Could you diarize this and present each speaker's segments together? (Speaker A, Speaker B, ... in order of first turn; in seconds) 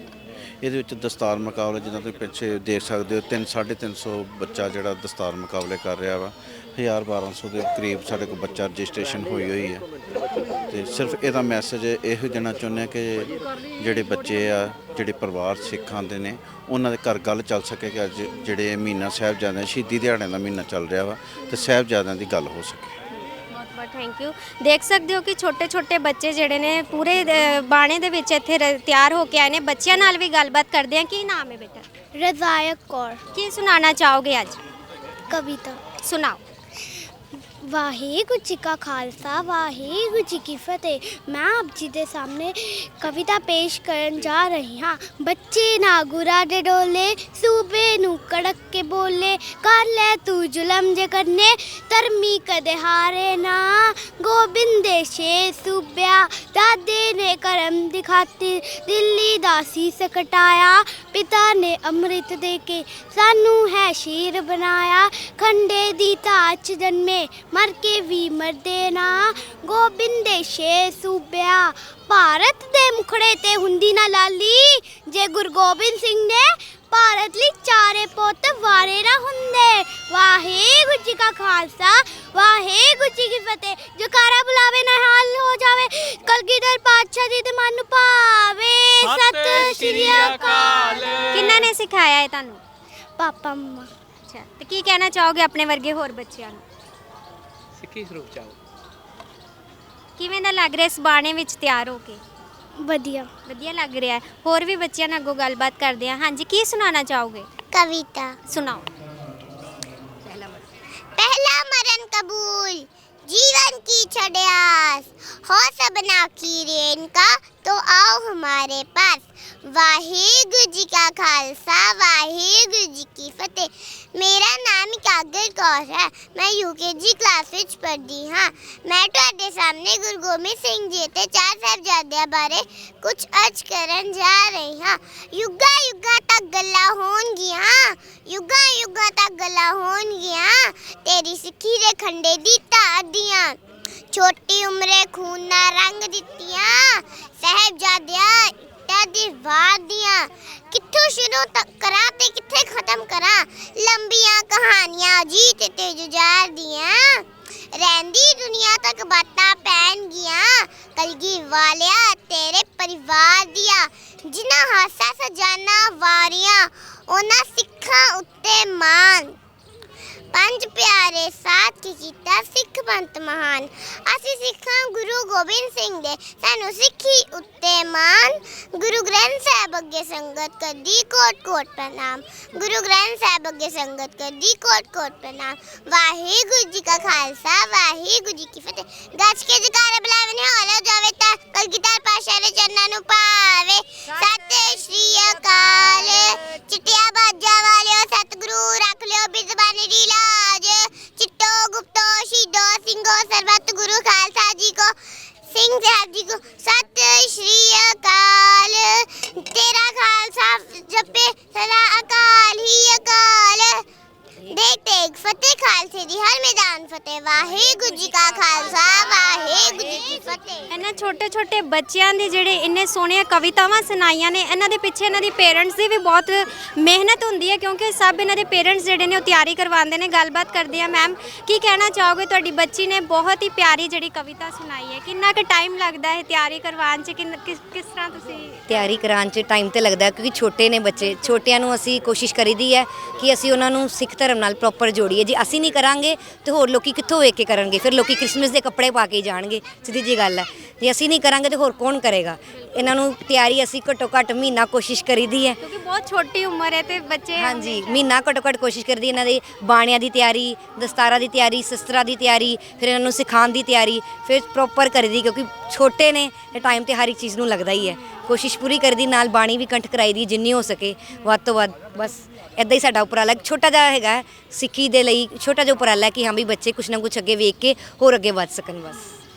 Speaker A: 0.6-9.9, 10.7-22.9
Speaker B: 21.4-21.7, 23.5-31.9, 33.4-34.6, 36.0-36.4, 91.3-92.6, 94.3-96.6, 100.2-102.2, 103.5-107.5, 108.5-108.9, 220.7-238.8, 255.6-258.1
Speaker C: 32.1-33.2, 35.3-35.8, 37.6-91.2, 93.2-93.9, 102.8-103.3
Speaker D: 89.0-91.6, 97.8-98.6
Speaker E: 107.7-108.4, 111.2-143.6, 144.1-169.4, 170.3-205.0, 205.5-213.8, 214.5-220.7
Speaker F: 217.5-220.4, 238.7-255.6, 257.4-279.1